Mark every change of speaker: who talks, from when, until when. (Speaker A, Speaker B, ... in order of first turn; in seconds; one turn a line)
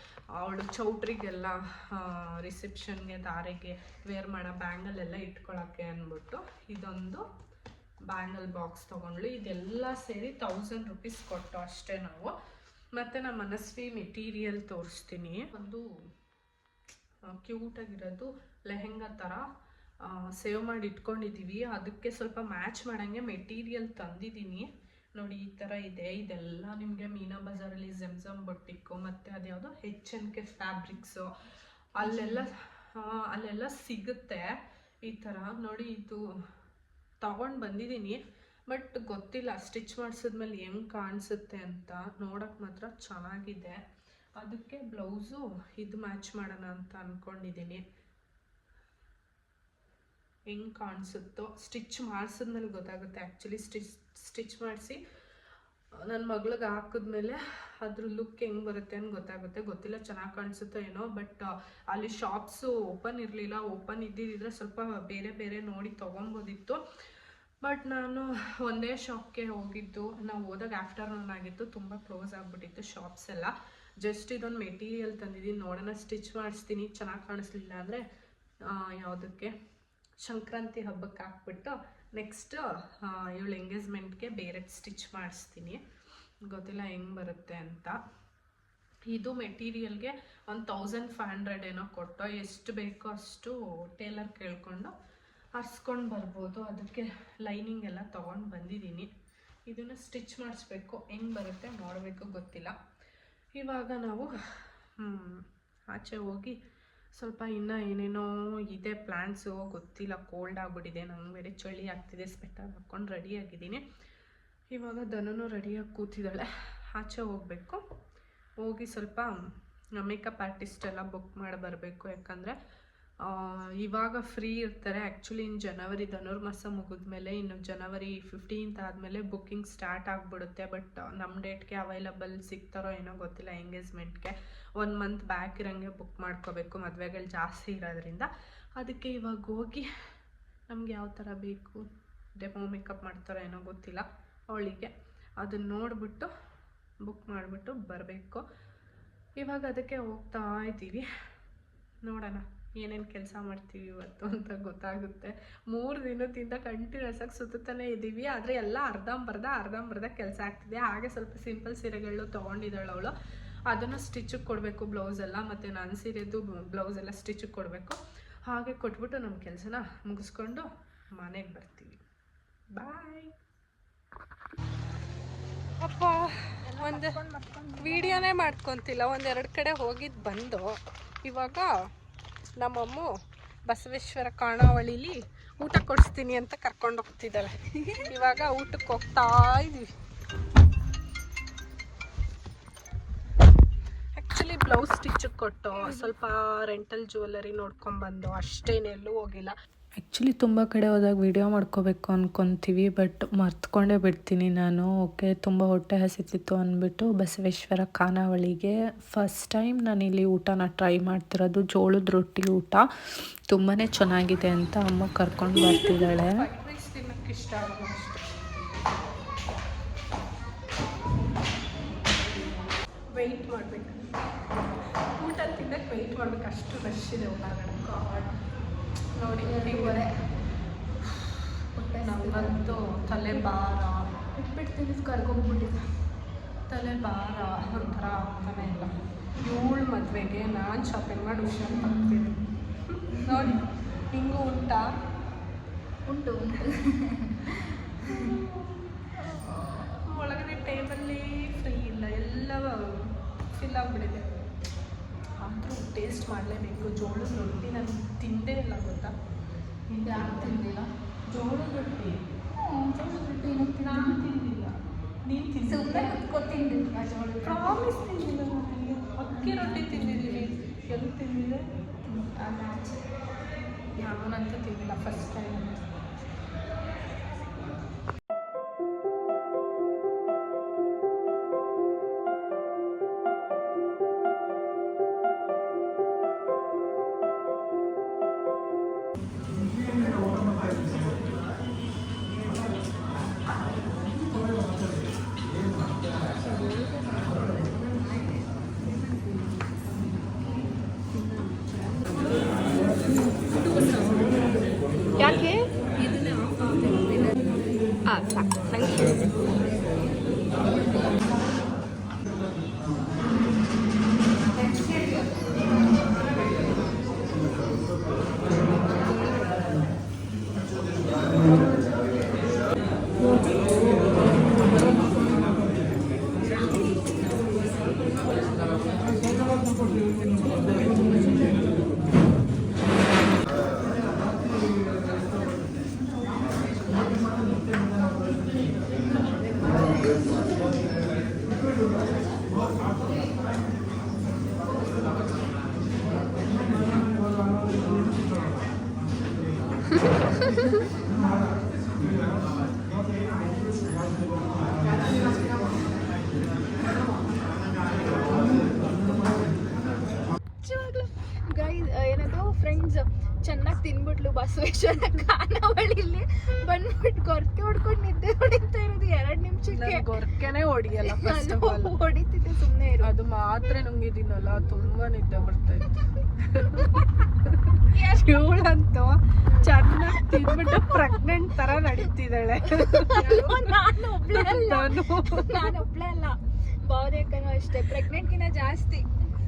Speaker A: 0.4-7.2
Speaker A: 8.1-12.3
Speaker A: 12.9-15.9
Speaker A: 17.3-19.4
Speaker A: 20.0-31.3
Speaker A: 32.0-34.5
Speaker B: 32.0-32.3
Speaker A: 35.0-36.2
Speaker A: 37.2-38.2
Speaker A: 38.7-43.8
Speaker A: 44.4-47.8
Speaker A: 50.5-55.0
Speaker A: 56.1-66.8
Speaker A: 67.6-78.0
Speaker A: 78.7-79.5
Speaker A: 80.2-85.8
Speaker A: 86.5-88.0
Speaker A: 89.1-94.9
Speaker A: 95.5-99.1
Speaker A: 99.7-102.8
Speaker A: 103.6-106.6
Speaker A: 107.2-113.8
Speaker A: 114.7-117.8
Speaker A: 118.6-119.3
Speaker A: 120.0-122.6
Speaker A: 123.2-139.9
Speaker A: 140.7-141.8
Speaker A: 142.4-146.3
Speaker A: 147.1-148.4
Speaker A: 149.4-151.1
Speaker A: 152.1-163.1
Speaker A: 163.7-170.7
Speaker A: 171.2-172.0
Speaker A: 172.8-173.3
Speaker A: 175.8-177.2
Speaker B: 176.6-178.5
Speaker A: 177.8-180.7
Speaker A: 181.2-181.7
Speaker A: 182.6-183.1
Speaker A: 183.7-189.9
Speaker B: 187.7-188.1
Speaker A: 194.2-199.5
Speaker B: 195.8-196.1
Speaker C: 200.0-212.9
Speaker C: 213.5-216.4
Speaker A: 215.6-218.2
Speaker A: 223.1-224.0
Speaker A: 225.2-228.3
Speaker A: 229.2-230.1
Speaker B: 229.4-230.2
Speaker B: 231.8-233.6
Speaker A: 232.0-234.1
Speaker B: 234.3-235.9
Speaker A: 236.7-243.6
Speaker B: 241.7-242.3
Speaker B: 243.2-243.6
Speaker A: 244.1-244.8
Speaker B: 246.1-248.4
Speaker A: 248.1-254.3
Speaker A: 255.4-259.1
Speaker A: 259.9-260.6
Speaker B: 260.0-260.9
Speaker A: 261.3-262.2
Speaker B: 262.5-264.2
Speaker A: 263.8-264.7
Speaker A: 265.3-266.2
Speaker B: 265.6-267.8
Speaker A: 267.4-271.6
Speaker B: 269.3-270.5
Speaker B: 272.1-273.1
Speaker A: 274.0-276.0
Speaker B: 296.6-297.2
Speaker B: 301.2-301.5
Speaker B: 303.8-304.2
Speaker B: 305.2-307.5
Speaker B: 360.6-370.1
Speaker A: 369.6-372.0
Speaker B: 371.0-373.1
Speaker A: 373.0-383.6
Speaker B: 377.9-378.5
Speaker B: 379.5-380.9
Speaker B: 382.7-389.1
Speaker A: 384.3-385.8